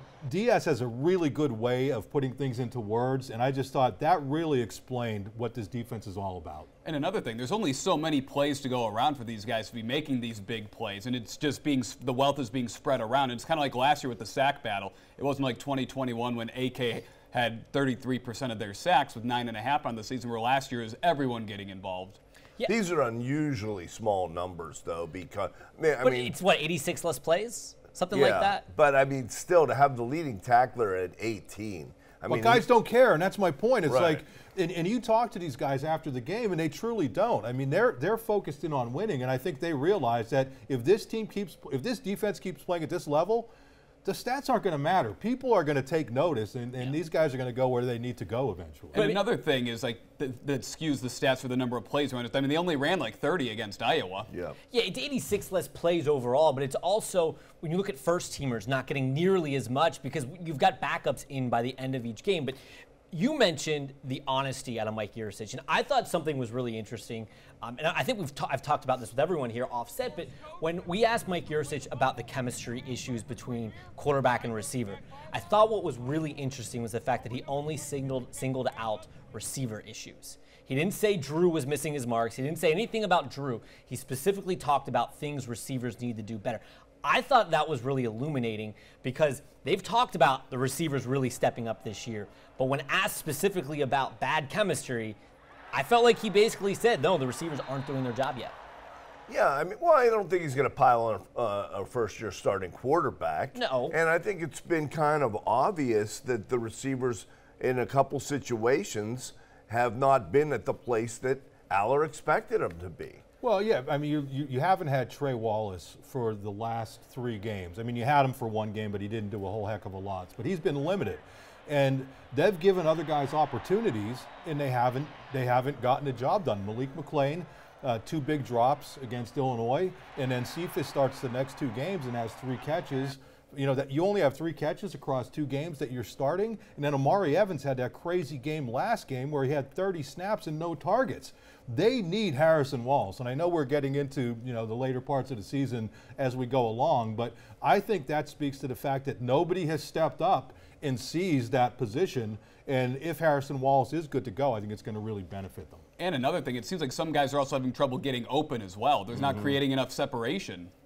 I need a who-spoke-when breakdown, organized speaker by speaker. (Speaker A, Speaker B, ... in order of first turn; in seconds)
Speaker A: 0.2-6.7, 32.3-43.5, 44.0-49.0, 113.4-155.8
Speaker B: 6.8-22.2, 48.9-54.3, 156.0-160.7
Speaker C: 22.6-26.4, 28.1-32.6, 33.9-34.2, 54.3-54.6, 99.3-113.2, 159.1-159.6
Speaker D: 26.0-28.6, 48.9-49.2, 54.7-62.6, 63.1-95.2, 95.7-98.5, 103.5-104.0